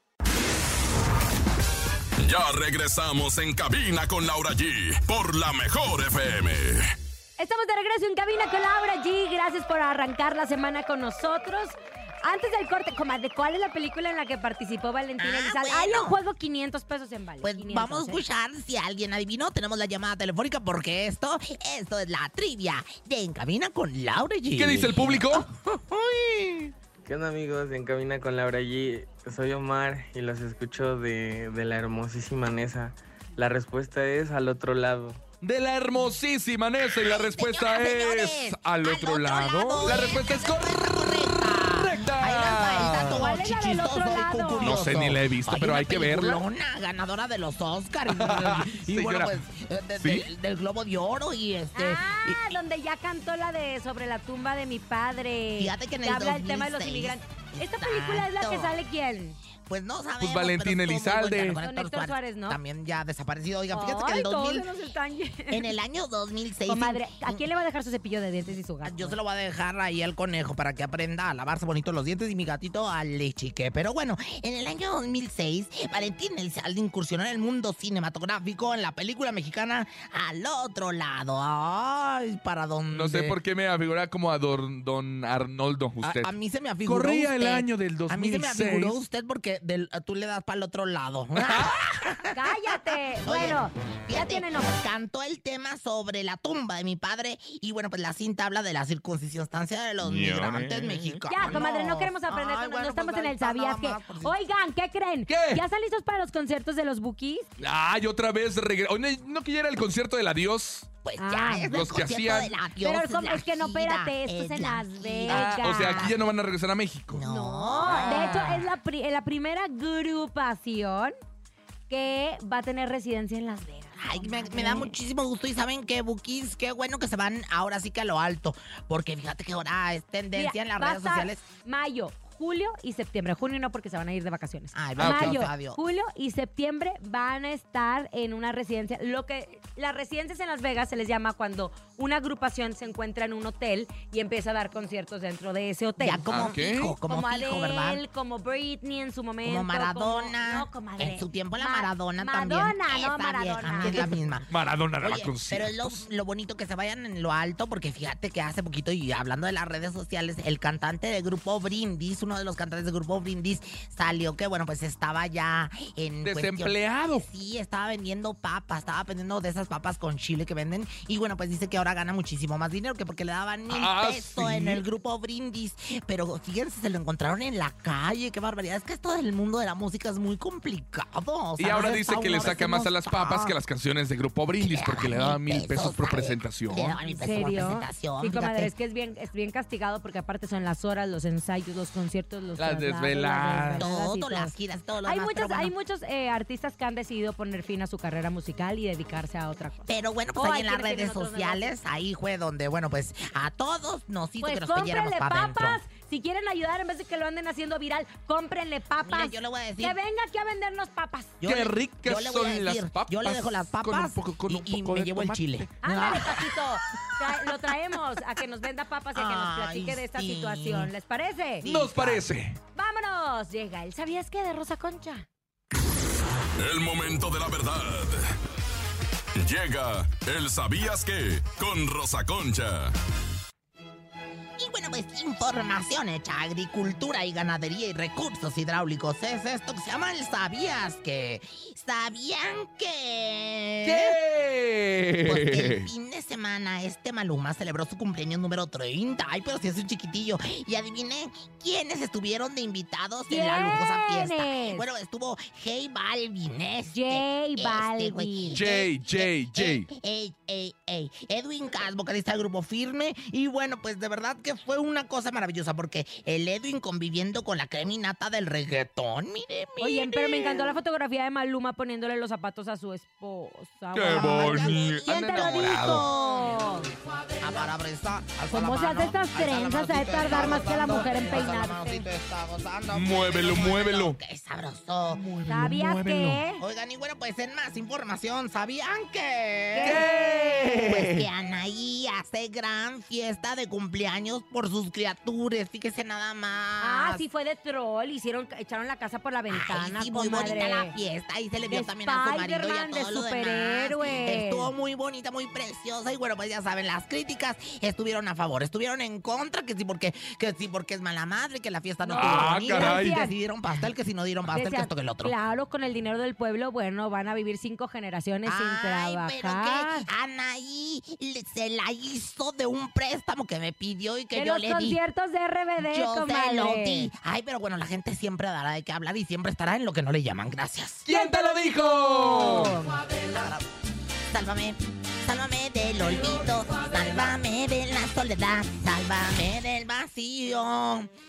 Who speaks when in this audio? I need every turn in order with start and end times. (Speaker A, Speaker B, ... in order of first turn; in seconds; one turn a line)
Speaker A: 2.2-6.9
Speaker B: 7.4-18.2
Speaker C: 15.2-16.2
Speaker C: 17.4-26.7
Speaker D: 24.6-25.5
Speaker E: 27.0-35.2
Speaker D: 35.4-40.7
Speaker C: 37.0-52.5
Speaker D: 41.8-43.2
Speaker B: 43.1-44.8
Speaker D: 44.6-46.4
Speaker D: 48.1-49.4
Speaker D: 50.0-50.3
Speaker B: 51.7-59.4
Speaker C: 55.5-58.7
Speaker C: 59.7-64.7
Speaker D: 60.2-61.6
Speaker B: 61.6-62.6
Speaker B: 63.7-65.7
Speaker C: 65.5-67.5
Speaker B: 66.7-69.2
Speaker C: 68.8-83.3
Speaker D: 82.9-86.3
Speaker C: 86.0-104.3
Speaker D: 86.8-89.0
Speaker D: 91.4-91.7
Speaker B: 92.3-94.8
Speaker D: 100.0-101.2
Speaker B: 101.3-107.5
Speaker D: 105.3-105.6
Speaker D: 107.6-110.9
Speaker C: 111.0-116.2
Speaker B: 111.2-111.7
Speaker D: 111.7-112.5
Speaker B: 112.8-116.1
Speaker D: 115.3-117.2
Speaker C: 117.1-118.6
Speaker B: 117.2-121.1
Speaker D: 117.9-118.2
Speaker B: 121.9-124.9
Speaker C: 124.0-131.4
Speaker B: 130.3-146.2
Speaker C: 134.7-135.8
Speaker D: 135.0-135.4
Speaker C: 146.0-148.0
Speaker D: 146.3-146.9
Speaker B: 147.1-154.1
Speaker C: 149.4-183.5
Speaker D: 153.9-156.0
Speaker D: 166.2-167.2
Speaker D: 173.7-174.8
Speaker D: 181.6-186.9
Speaker C: 184.6-188.7
Speaker B: 187.1-194.5
Speaker D: 192.6-193.8
Speaker C: 193.8-195.7
Speaker B: 195.0-201.7
Speaker C: 199.9-205.8
Speaker B: 204.4-211.4
Speaker C: 209.0-209.9
Speaker C: 211.4-216.5
Speaker D: 211.4-215.7
Speaker B: 215.8-221.7
Speaker C: 219.1-220.9
Speaker C: 221.6-222.2
Speaker D: 221.6-222.6
Speaker B: 222.7-225.2
Speaker A: 226.6-228.3
Speaker A: 229.3-232.9
Speaker C: 234.6-244.2
Speaker D: 243.8-245.9
Speaker C: 245.2-270.8
Speaker B: 253.3-254.8
Speaker B: 256.9-258.6
Speaker D: 258.5-259.9
Speaker B: 269.8-276.9
Speaker D: 273.9-276.0
Speaker C: 274.1-276.7
Speaker C: 277.4-285.2
Speaker B: 278.5-282.1
Speaker D: 282.9-284.1
Speaker D: 285.1-286.4
Speaker B: 285.5-286.6
Speaker C: 286.6-290.0
Speaker B: 289.7-290.7
Speaker D: 289.8-291.2
Speaker C: 290.6-297.2
Speaker B: 296.8-300.9
Speaker C: 299.5-315.3
Speaker B: 301.7-304.7
Speaker B: 312.0-313.3
Speaker D: 312.1-313.1
Speaker B: 314.5-320.1
Speaker C: 318.4-325.0
Speaker B: 324.3-327.1
Speaker C: 325.8-331.0
Speaker D: 331.1-332.7
Speaker B: 331.1-333.0
Speaker C: 333.2-333.6
Speaker C: 334.3-341.1